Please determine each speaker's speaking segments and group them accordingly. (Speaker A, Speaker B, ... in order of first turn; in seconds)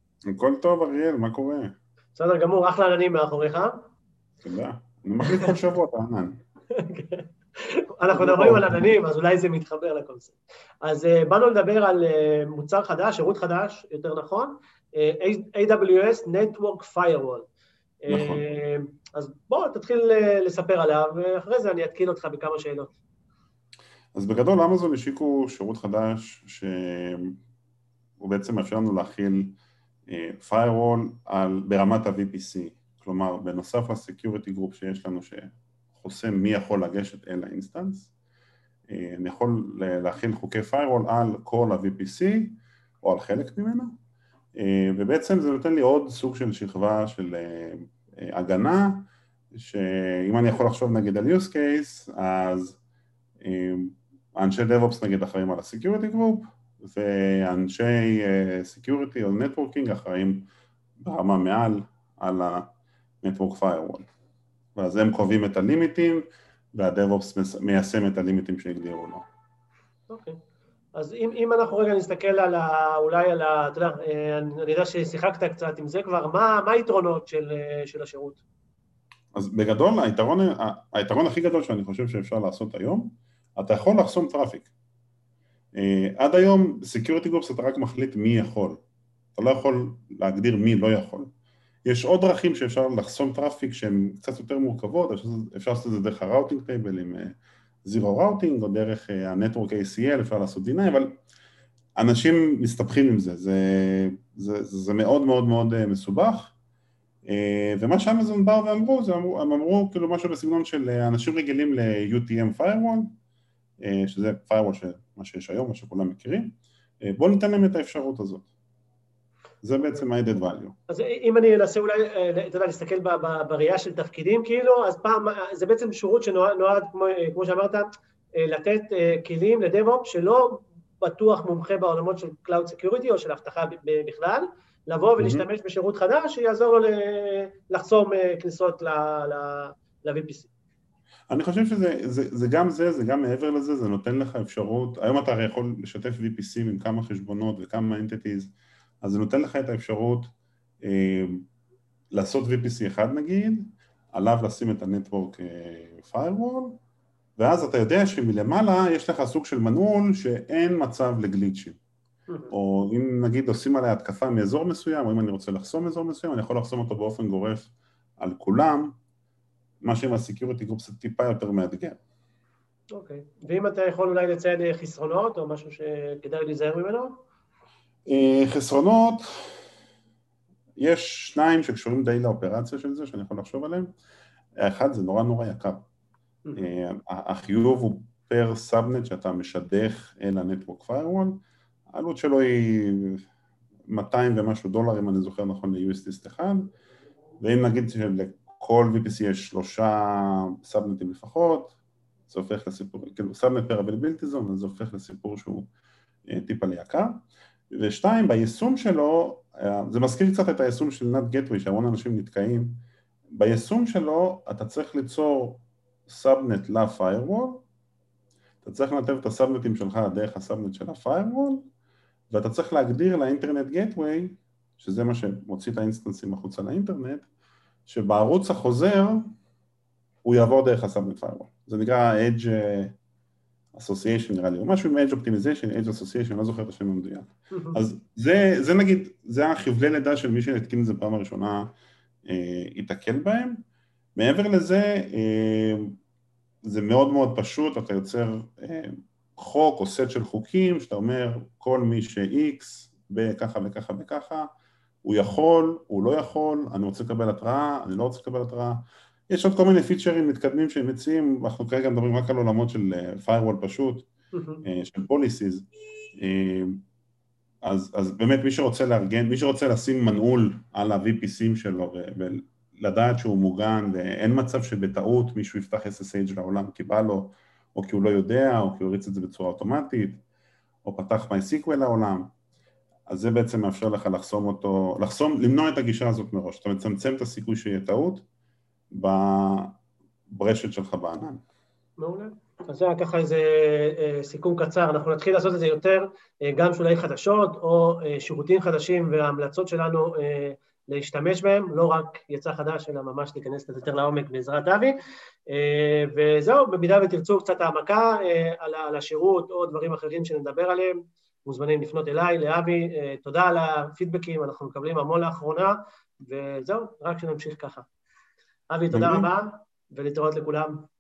Speaker A: 0.3-1.7, 4.4-6.4, 8.1-9.0, 18.1-18.4, 24.1-27.4, 28.2-38.1, 38.9-43.9, 44.6-52.8, 53.4-60.5, 61.0-62.7, 63.2-64.1, 64.8-69.2, 79.3-84.7, 85.8-88.8, 89.3-91.3, 91.8-101.2, 102.0-106.5, 107.3-113.1, 113.8-118.5, 119.6-120.7, 135.2-135.4, 141.3-150.3, 150.8-151.5, 152.1-156.8, 157.4-161.8, 162.5-168.9, 169.8-172.0, 178.1-179.5, 180.8-183.9, 184.6-185.8, 186.6-191.4, 191.9-193.2, 193.9-196.7, 197.4-201.8, 202.3-205.7, 206.3-207.2, 207.7-217.6, 218.6-221.7, 222.3-227.3, 227.9-229.3, 230.2-232.9, 233.7-241.7, 242.2-243.6, 244.2-245.9, 246.6-254.5, 255.0-264.1, 264.6-266.8, 267.6-280.2, 280.8-282.3, 283.1-288.2, 288.9-289.8, 290.3-291.4, 318.9-319.3
Speaker B: 2.2-3.8, 5.3-5.5, 6.7-17.5, 18.0-22.9, 70.1-70.4, 71.0-78.4, 120.9-127.9, 128.4-140.5, 162.3-162.5, 172.9-177.2, 237.5-237.8, 264.3-264.6, 292.0-305.0, 305.5-317.9, 318.7-320.8